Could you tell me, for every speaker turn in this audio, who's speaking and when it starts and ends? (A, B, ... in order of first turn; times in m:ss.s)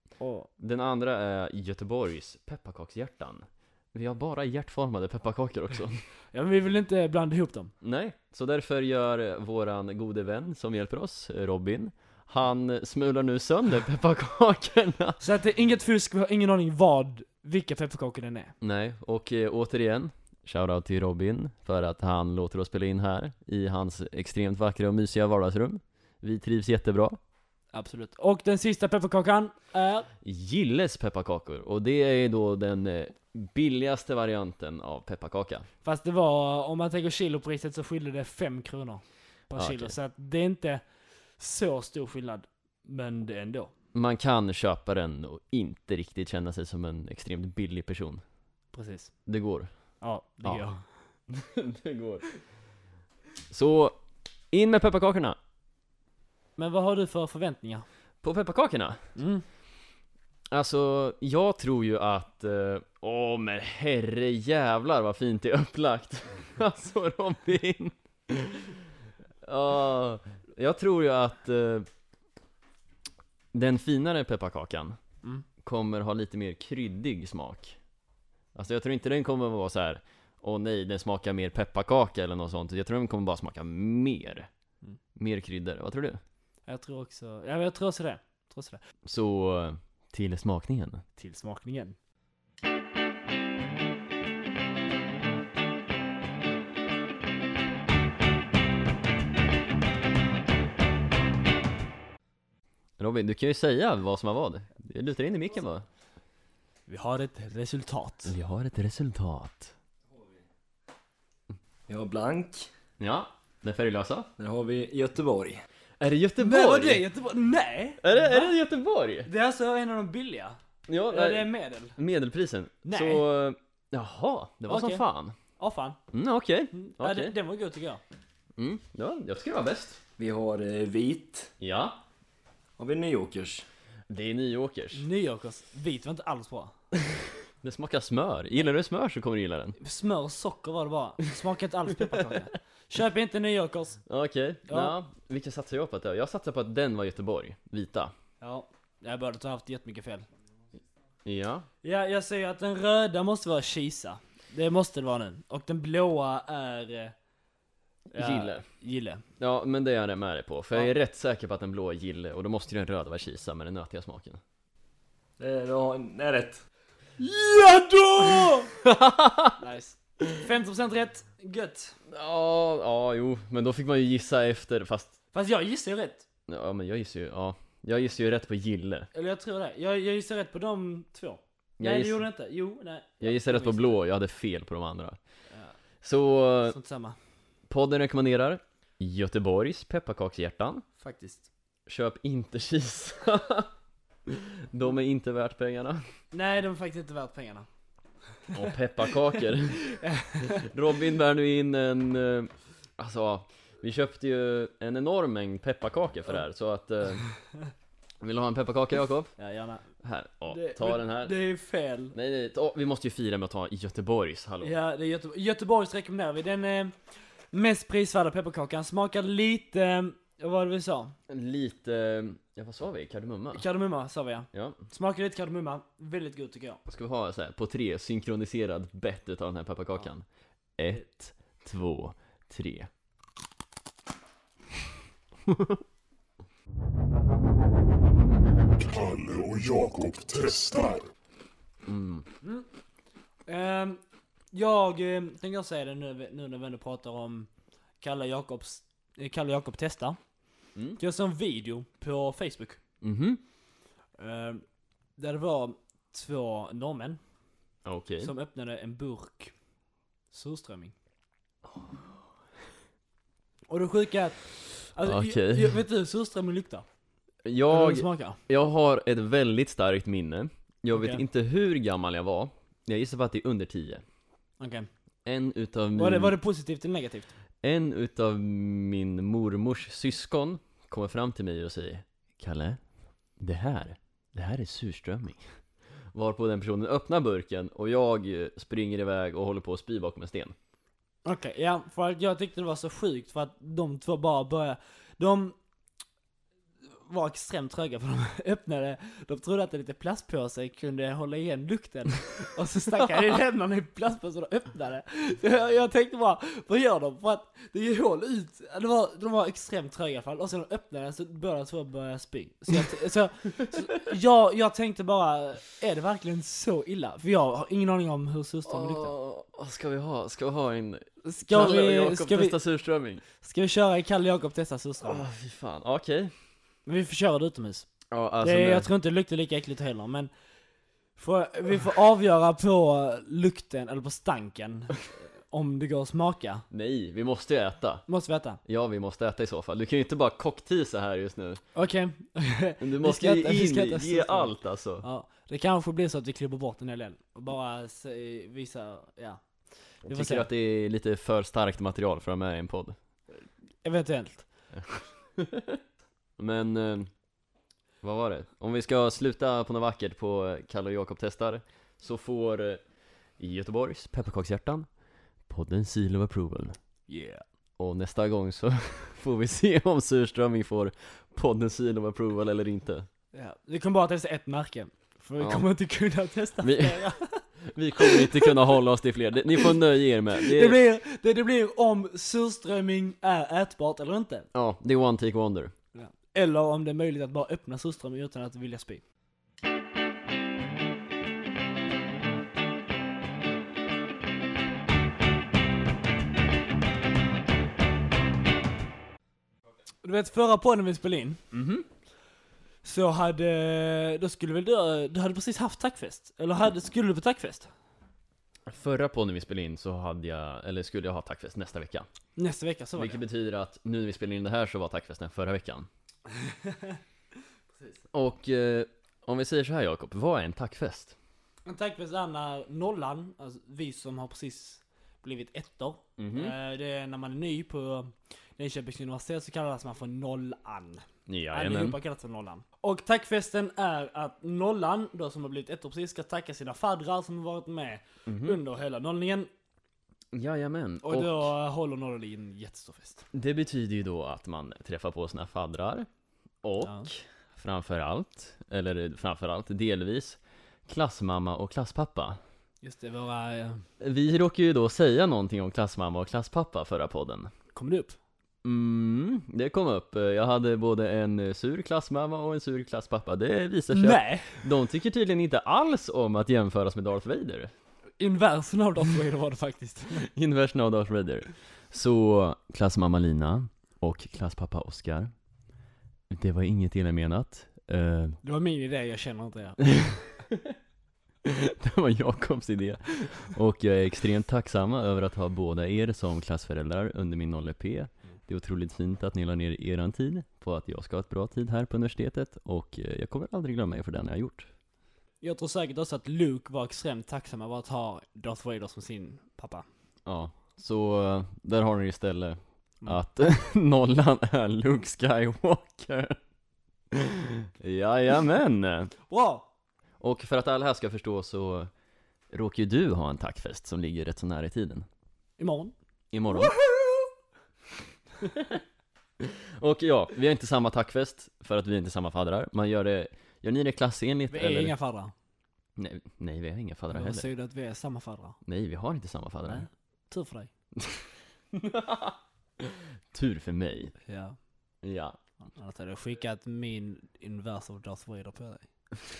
0:00.2-0:00.5 A
0:00.6-0:06.0 B
0:06.3-0:07.7 A
0:07.8-0:15.2 B
0:15.2-0:18.5 A
0:18.6-0:27.2 B
0:27.7-0:30.1 A
0:30.2-0:35.7 B
0:35.8-0:40.8 A
0:39.6-0:39.9 B
0:41.4-0:43.7 A
0:43.9-0:48.2 B
0:48.7-0:49.1 A
0:49.3-0:49.7 B
0:50.0-0:50.8 A
0:51.3-0:52.2 B
0:53.5-0:54.0 B
0:54.5-0:55.4 B
0:56.6-0:57.9 A
0:58.2-0:59.0 B
0:59.2-0:59.4 A
1:00.5-1:08.8 B
1:09.4-1:11.9 B
1:13.5-1:15.0 B
1:15.6-1:17.8 B
1:18.6-1:24.5 B
1:25.2-1:26.2 B
1:26.7-1:28.8 A
1:29.0-1:31.0 B
1:31.2-1:32.0 A
1:43.0-1:45.9 B
1:46.9-1:48.4 A
1:48.3-1:49.7 B
1:51.9-1:52.7 C
1:53.0-1:54.3 B
1:54.4-1:55.6 C
1:56.0-1:57.0 B
1:56.4-1:58.5 A
1:58.0-1:59.3 B
1:59.3-2:00.6 A
2:00.9-2:05.4 B
2:01.1-2:02.0 A
2:02.8-2:03.2 A
2:04.7-2:05.0 A
2:05.6-2:06.0 A
2:06.1-2:07.4 B
2:06.7-2:08.0 A
2:08.6-2:10.0 B
2:10.2-2:11.5 C
2:11.6-2:12.0 B
2:12.8-2:13.6 C
2:14.1-2:15.1 B
2:14.9-2:16.7 A
2:17.1-2:19.8 B
2:19.8-2:24.0 A
2:24.1-2:28.1 B
2:24.7-2:25.0 A
2:28.4-2:30.3 A
2:31.2-2:31.7 B
2:31.8-2:37.1 A
2:38.1-2:38.6 B
2:38.1-2:39.2 A
2:39.4-2:44.4 B
2:45.4-2:46.6 C
2:47.2-2:48.7 A
2:48.4-2:49.6 B
2:49.6-2:52.0 A
2:52.1-2:55.2 B
2:55.3-2:56.2 A
2:56.5-2:59.1 B
2:59.1-3:04.0 A
3:01.8-3:02.3 B
3:03.2-3:05.2 B
3:06.0-3:06.8 B
3:06.7-3:07.2 A
3:07.7-3:10.8 B
3:11.0-3:11.5 A
3:11.9-3:13.7 B
3:14.3-3:16.0 B
3:16.3-3:17.7 A
3:18.5-3:19.8 B
3:19.6-3:20.7 A
3:20.4-3:27.3 B
3:28.2-3:29.3 B
3:29.4-3:29.8 A
3:30.0-3:31.3 B
3:30.5-3:32.2 A
3:32.1-3:34.8 B
3:34.6-3:37.0 A
3:37.5-3:41.2 A
3:41.3-3:43.6 B
3:43.5-3:46.8 A
3:44.5-3:44.8 B
3:46.9-3:50.3 B
3:50.8-3:52.9 B
3:55.5-3:55.8 B
3:58.8-4:01.1 D
4:01.9-4:02.3 B
4:02.4-4:02.7 A
4:03.5-4:04.0 A
4:04.5-4:07.5 A
4:08.0-4:10.2 A
4:10.8-4:11.0 B
4:11.0-4:12.8 A
4:13.0-4:13.4 B
4:14.2-4:14.6 A
4:15.2-4:17.2 A
4:17.8-4:18.3 B
4:18.2-4:19.5 A
4:20.3-4:20.9 A
4:23.7-4:26.8 A
4:25.0-4:25.8 B
4:27.4-4:34.0 B
4:27.7-4:28.4 A
4:30.9-4:31.2 A
4:34.6-4:34.9 A
4:35.2-4:36.4 B
4:36.0-4:37.3 A
4:37.6-4:42.8 B
4:43.4-4:45.6 B
4:46.1-4:50.6 B
4:51.2-4:55.6 A
4:57.1-5:19.1 A
5:18.7-5:23.2 B
5:21.2-5:22.6 A
5:23.4-5:25.3 A
5:25.0-5:26.3 B
5:26.9-5:27.9 A
5:28.1-5:28.9 B
5:28.4-5:30.3 A
5:31.2-5:36.6 A
5:36.7-5:38.0 B
5:38.1-5:38.6 A
5:38.6-5:41.6 B
5:41.7-5:49.4 A
5:42.8-5:45.0 B
5:49.9-5:50.5 A
5:50.0-5:53.0 B
5:53.8-5:54.5 A
5:54.7-5:55.8 B
5:56.4-5:57.1 B
5:58.0-6:02.8 B
6:03.4-6:04.9 B
6:05.5-6:06.8 B
6:07.1-6:07.4 A
6:07.8-6:13.1 B
6:13.3-6:17.4 A
6:15.4-6:15.7 B
6:16.6-6:17.1 B
6:17.6-6:20.8 B
6:18.0-6:18.5 A
6:20.4-6:24.5 A
6:24.5-6:25.7 B
6:25.9-6:29.0 A
6:40.0-6:41.4 A
6:41.5-6:41.9 B
6:42.8-6:47.7 A
6:48.7-6:52.1 B
6:52.4-6:53.2 A
6:53.0-6:55.9 B
6:56.4-6:57.0 A
6:58.1-7:01.2 B
7:01.7-7:19.5 A
7:06.2-7:06.6 B
7:11.3-7:12.0 B
7:18.3-7:18.6 B
7:20.3-7:21.5 B
7:21.0-7:23.2 A
7:23.3-7:26.1 B
7:26.6-7:32.4 B
7:26.8-7:27.1 A
7:32.8-7:33.8 A
7:34.0-7:37.5 B
7:37.7-7:38.2 A
7:38.6-7:47.7 B
7:43.9-7:44.6 A
7:48.2-7:50.3 A
7:50.2-7:55.3 B
7:56.3-7:58.4 B
7:58.4-7:59.8 A
8:00.0-8:00.8 B
8:01.4-8:14.7 B
8:15.4-8:19.9 A
8:20.3-8:26.4 B
8:27.1-8:29.1 B
8:29.3-8:29.7 A
8:30.2-8:31.9 B
8:32.5-8:35.1 B
8:35.6-8:35.9 A
8:36.3-8:36.8 B
8:36.5-8:37.3 A
8:38.4-8:38.8 B
8:39.4-8:44.9 B
8:44.5-8:45.3 A
8:46.0-8:47.5 B
8:47.1-8:48.6 A
8:48.6-8:49.9 B
8:49.7-8:50.7 A
8:51.0-8:54.1 B
8:54.3-8:54.6 A
8:55.0-8:55.4 B
8:55.8-8:58.9 A